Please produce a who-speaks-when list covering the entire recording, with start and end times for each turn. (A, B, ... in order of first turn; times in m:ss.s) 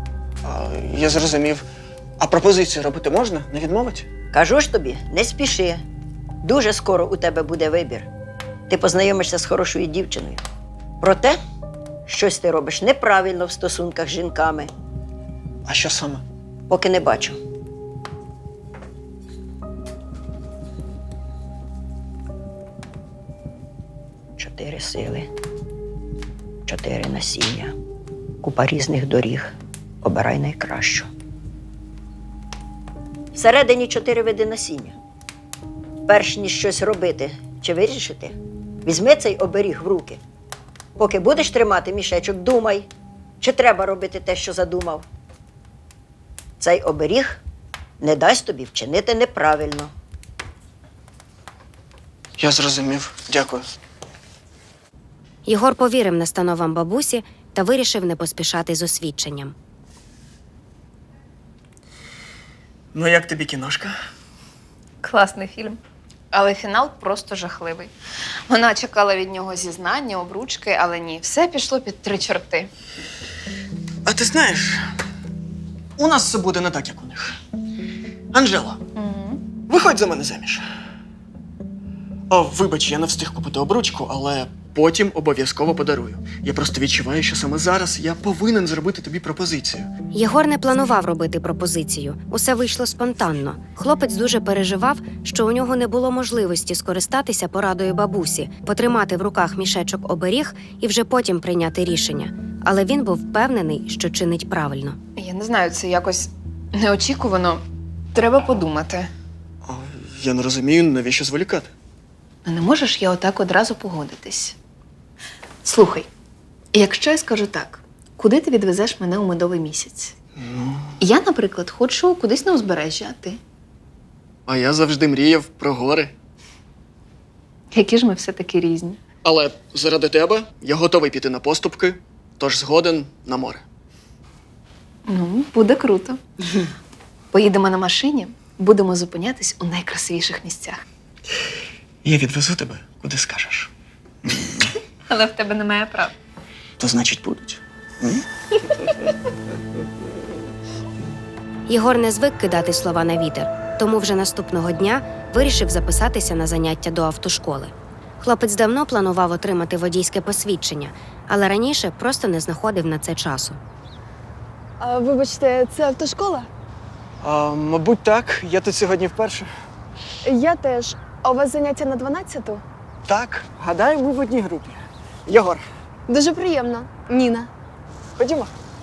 0:00.4-0:01.7 A
0:02.2-0:04.1 A
0:04.3-0:05.8 B
0:06.4-0:08.1 B
0:08.7-0:10.4 B
0:11.0-0:11.4 B
0:12.1-0:14.7 B
0:15.7-0:16.2 A
0:16.7-0:17.4 B
0:24.4-0:25.3 B
0:26.7-0:27.7 B
0:28.4-0:31.1 B
0:33.4-0:35.0 B
0:36.1-0:40.2 B
0:41.0-0:42.9 B
0:43.4-0:45.0 B
0:46.6-0:47.4 B
0:48.0-0:49.9 B
0:52.4-0:53.6 A
0:55.5-0:59.6 C
1:02.9-1:03.9 A
1:05.0-1:05.8 D
1:06.3-1:07.9 D
1:08.5-1:12.7 D
1:14.1-1:14.8 A
1:16.0-1:17.4 A
1:18.3-1:18.8 A
1:19.0-1:19.4 D
1:19.7-1:20.6 A
1:22.3-1:29.9 A
1:30.1-1:45.0 C
1:45.2-1:47.6 D
1:48.1-1:49.1 D
1:49.6-1:51.7 A
1:52.4-1:54.6 D
1:55.6-1:56.1 D
1:56.7-2:00.2 D
2:00.4-2:01.0 A
2:01.0-2:03.4 D
2:04.5-2:06.1 A
2:07.7-2:09.0 D
2:09.2-2:13.6 A
2:15.1-2:16.2 D
2:17.3-2:20.8 D
2:22.0-2:23.7 A
2:24.2-2:24.7 A
2:25.1-2:26.2 D
2:26.8-2:28.2 A
2:31.7-2:43.6 C
2:44.8-2:46.5 E
2:47.2-2:49.5 A
2:50.2-2:52.6 E
2:53.1-2:55.6 A
2:56.1-2:57.5 E
2:58.2-2:58.5 A